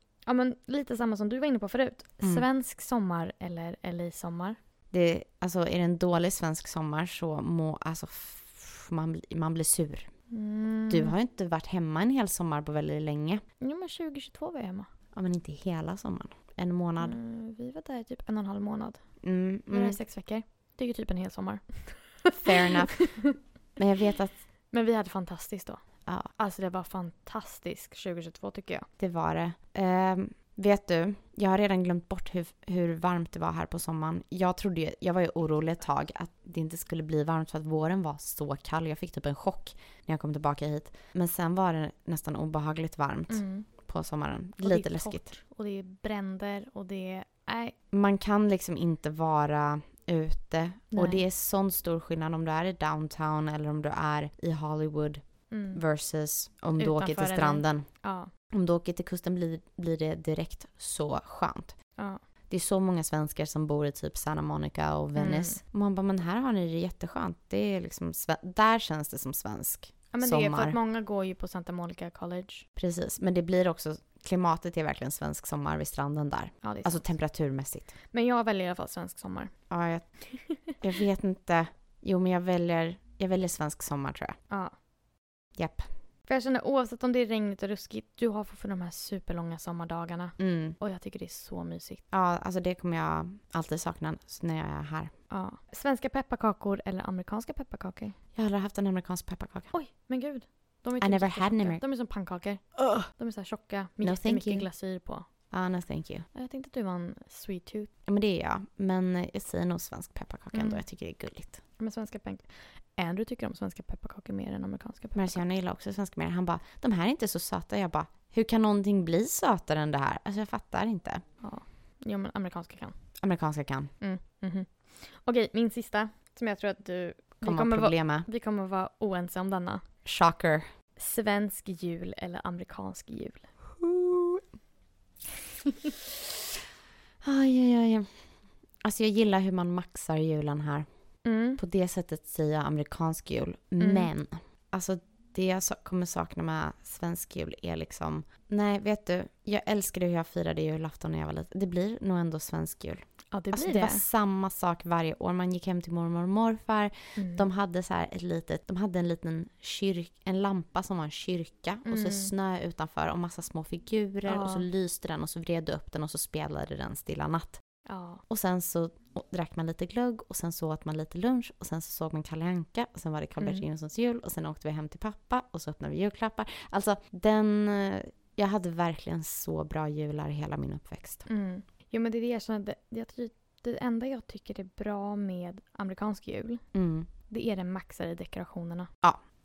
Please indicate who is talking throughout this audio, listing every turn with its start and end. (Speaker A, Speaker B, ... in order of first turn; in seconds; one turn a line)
Speaker A: 0.3-4.6
Speaker B: 4.9-10.1
Speaker A: 10.3-11.2
Speaker B: 10.9-13.4
Speaker A: 13.6-14.9
Speaker B: 15.1-17.2
Speaker A: 17.0-19.0
Speaker B: 19.2-20.0
Speaker A: 19.7-22.4
Speaker B: 22.3-23.1
Speaker A: 23.0-23.4
Speaker B: 23.8-24.4
Speaker A: 24.7-25.8
Speaker B: 26.1-26.3
Speaker A: 26.4-28.9
Speaker B: 29.0-45.4
Speaker A: 43.3-43.7
Speaker A: 44.6-47.7
Speaker B: 47.9-55.2
Speaker A: 50.9-51.2
Speaker A: 55.5-55.8
Speaker B: 55.7-57.9
Speaker A: 56.8-58.3
Speaker B: 58.5-61.8
Speaker B: 62.5-70.8
Speaker A: 65.2-65.6
Speaker A: 70.1-72.7
Speaker B: 72.8-78.0
Speaker A: 76.6-77.1
Speaker A: 78.1-79.5
Speaker B: 79.7-80.2
Speaker A: 80.3-80.6
Speaker B: 80.8-84.4
Speaker B: 85.6-85.9
Speaker A: 86.3-92.0
Speaker B: 90.4-90.8
Speaker B: 92.1-95.1
Speaker A: 95.3-98.2
Speaker B: 98.3-99.7
Speaker A: 99.7-105.3
Speaker B: 101.0-101.8
Speaker B: 102.8-103.1
Speaker B: 104.0-104.7
Speaker B: 105.5-106.3
Speaker A: 106.3-107.9
Speaker B: 108.1-111.6
Speaker A: 110.5-110.8
Speaker A: 111.8-115.4
Speaker B: 115.2-121.2
Speaker A: 121.4-122.9
Speaker B: 123.2-123.9
Speaker A: 124.0-129.8
Speaker B: 127.4-128.3
Speaker B: 130.1-130.7
Speaker A: 131.0-133.5
Speaker B: 133.8-134.4
Speaker B: 137.2-138.1
Speaker B: 138.8-140.9
Speaker A: 141.2-141.6
Speaker B: 141.6-167.6
Speaker A: 143.8-144.1
Speaker A: 153.3-154.0
Speaker A: 157.2-157.5
Speaker A: 161.8-162.3
Speaker A: 164.2-164.7
Speaker A: 167.9-168.2
Speaker B: 168.3-181.3
Speaker A: 173.4-173.7
Speaker A: 181.3-186.6
Speaker B: 186.7-187.1
Speaker A: 187.3-188.9